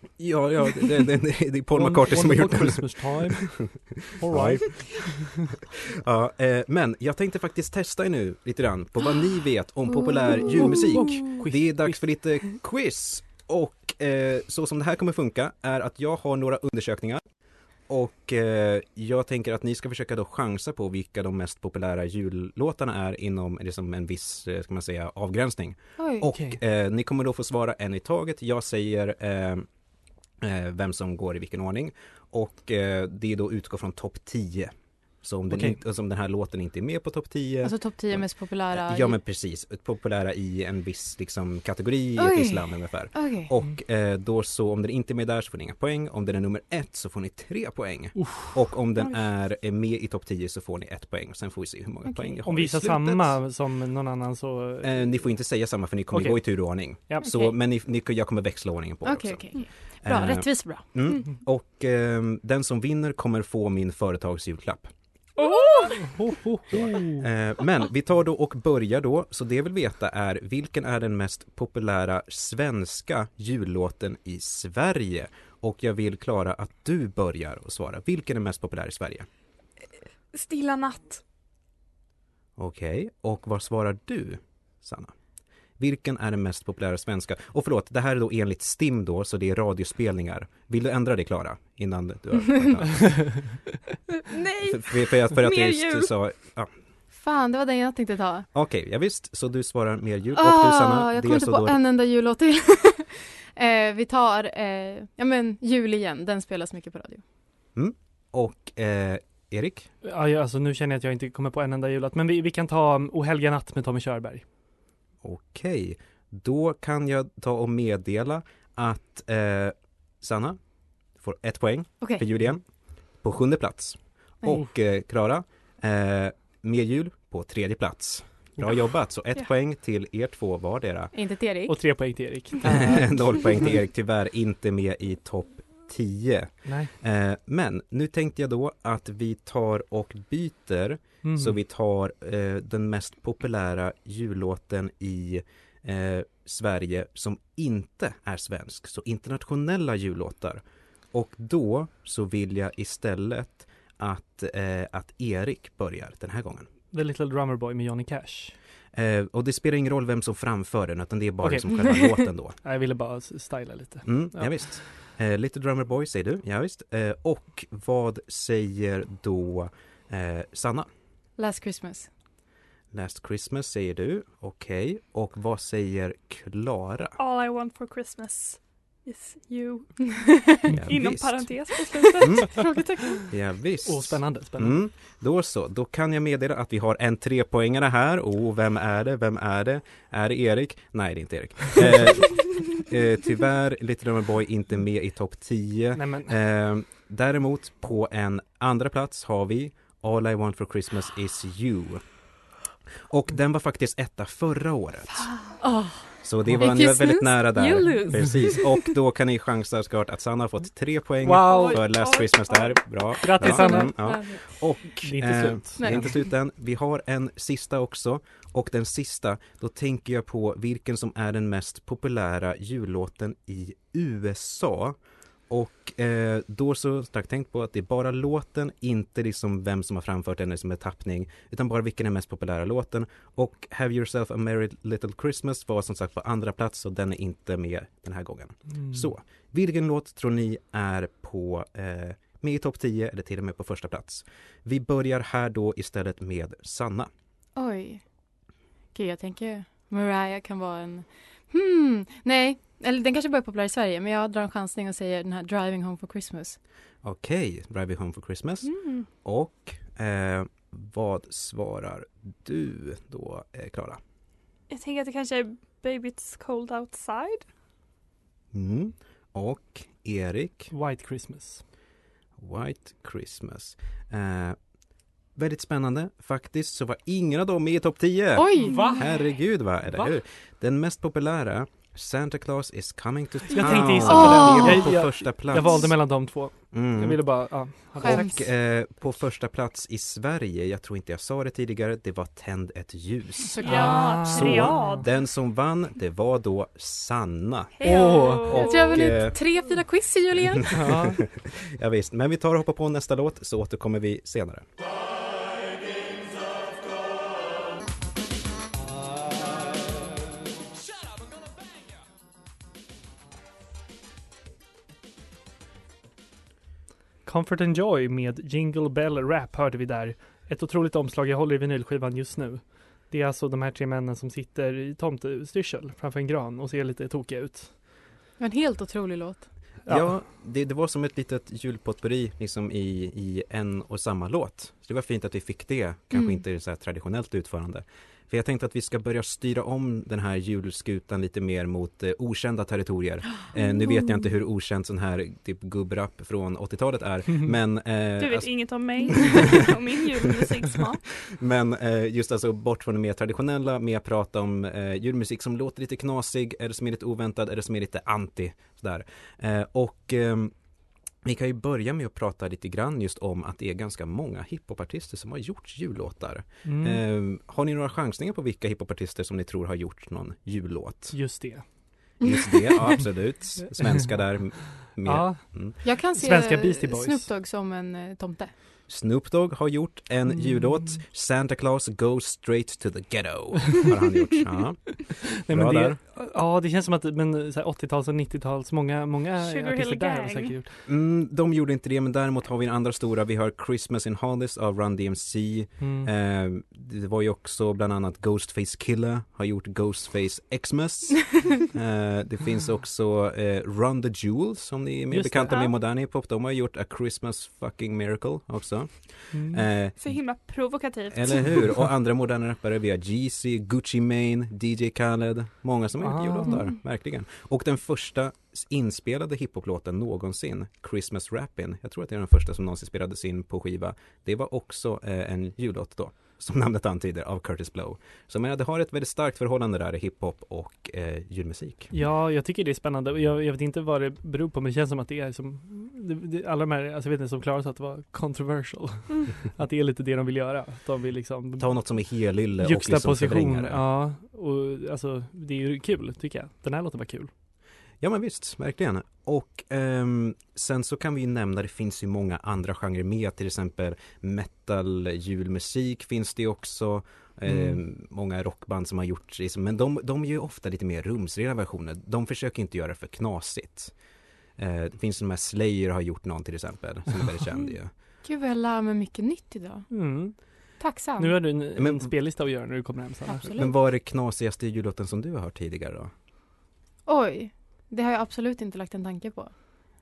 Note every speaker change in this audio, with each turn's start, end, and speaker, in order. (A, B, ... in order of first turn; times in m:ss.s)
0:00.2-0:17.3 A
0:01.7-0:05.3 B
0:09.9-0:10.8 C
0:10.6-0:12.1 B
0:17.9-0:29.7 A
0:26.0-0:26.3 C
0:26.3-0:26.6 B
0:30.4-0:53.4 A
0:35.5-0:35.8 B
0:37.6-0:39.2 C
0:42.2-0:43.5 C
0:48.2-0:48.7 B
0:52.0-0:52.4 C
0:52.4-0:55.3 B
0:54.8-1:04.9 A
0:56.1-0:57.3 B
0:57.2-0:57.6 C
0:59.0-1:00.9 C
1:05.4-1:06.3 D
1:06.0-1:07.3 B
1:06.8-1:19.3 A
1:20.3-1:21.2 D
1:22.6-1:25.2 A
1:25.8-1:33.6 A
1:34.2-1:36.1 D
1:34.6-1:36.7 A
1:37.1-1:38.5 C
1:38.5-1:41.8 A
1:40.4-1:47.2 C
1:47.8-1:49.9 A
1:50.0-1:54.4 B
1:55.2-2:00.6 A
2:01.2-2:11.1 A
2:02.0-2:02.2 C
2:11.1-2:12.1 C
2:11.7-2:13.8 B
2:12.6-2:36.7 A
2:16.6-2:16.9 B
2:21.2-2:21.6 B
2:36.9-2:38.6 B
2:38.9-2:42.6 A
2:41.4-2:42.0 B
2:42.6-2:44.9 B
2:44.0-2:50.9 A
2:51.4-2:52.1 C
2:52.9-2:57.2 A
2:57.2-3:03.2 D
3:00.7-3:22.2 A
3:03.8-3:04.8 B
3:16.0-3:16.4 B
3:23.1-3:25.5 A
3:25.1-3:25.6 D
3:25.6-3:28.9 C
3:26.2-3:45.0 A
3:31.2-3:31.8 B
3:31.5-3:33.8 D
3:33.2-3:34.4 B
3:33.5-3:34.4 C
3:35.0-3:36.2 B
3:35.8-3:36.1 C
3:45.5-4:07.1 A
3:58.7-3:59.1 B
4:07.6-4:08.1 C
4:08.9-4:16.6 C
4:17.0-4:24.0 A
4:18.6-4:19.1 D
4:24.7-4:27.5 D
4:28.5-4:30.7 A
4:30.7-4:31.6 B
4:32.4-4:34.6 A
4:35.3-4:46.2 A
4:38.4-4:38.9 C
4:38.6-4:39.0 D
4:38.6-4:39.2 B
4:43.5-4:48.4 B
4:44.0-4:45.1 C
4:46.7-4:59.4 A
4:48.0-4:48.5 C
4:53.5-4:54.2 C
4:53.6-4:55.1 D
4:53.6-4:55.0 B
4:57.8-4:59.0 D
4:57.8-4:58.6 B
4:57.9-5:00.8 C
5:00.7-5:01.2 B
5:00.7-5:04.7 A
5:17.2-5:27.8 B
5:28.4-5:29.5 C
5:29.8-5:30.2 B
5:29.9-5:49.4 A
5:48.2-5:51.2 D
5:51.2-6:00.6 A
6:01.2-6:15.8 A
6:06.6-6:07.0 B
6:11.1-6:12.2 B
6:13.6-6:17.3 B
6:15.8-6:18.5 C
6:18.9-6:26.0 A
6:20.3-6:21.0 B
6:25.1-6:30.8 B
6:29.4-6:30.6 D
6:30.8-6:50.4 A
6:35.8-6:36.1 B
6:45.1-6:45.7 B
6:49.3-6:49.7 B
6:50.0-6:51.8 D
6:51.1-7:11.9 A
6:56.0-6:56.7 B
7:11.9-7:27.3 B
7:21.6-7:23.8 A
7:28.0-7:44.0 A
7:37.5-7:37.8 B
7:44.6-7:47.9 A
7:48.2-7:51.5 C
7:49.9-7:53.5 B
7:51.8-7:52.6 A
7:53.2-7:53.8 C
7:53.4-7:56.1 A
7:57.1-7:59.5 C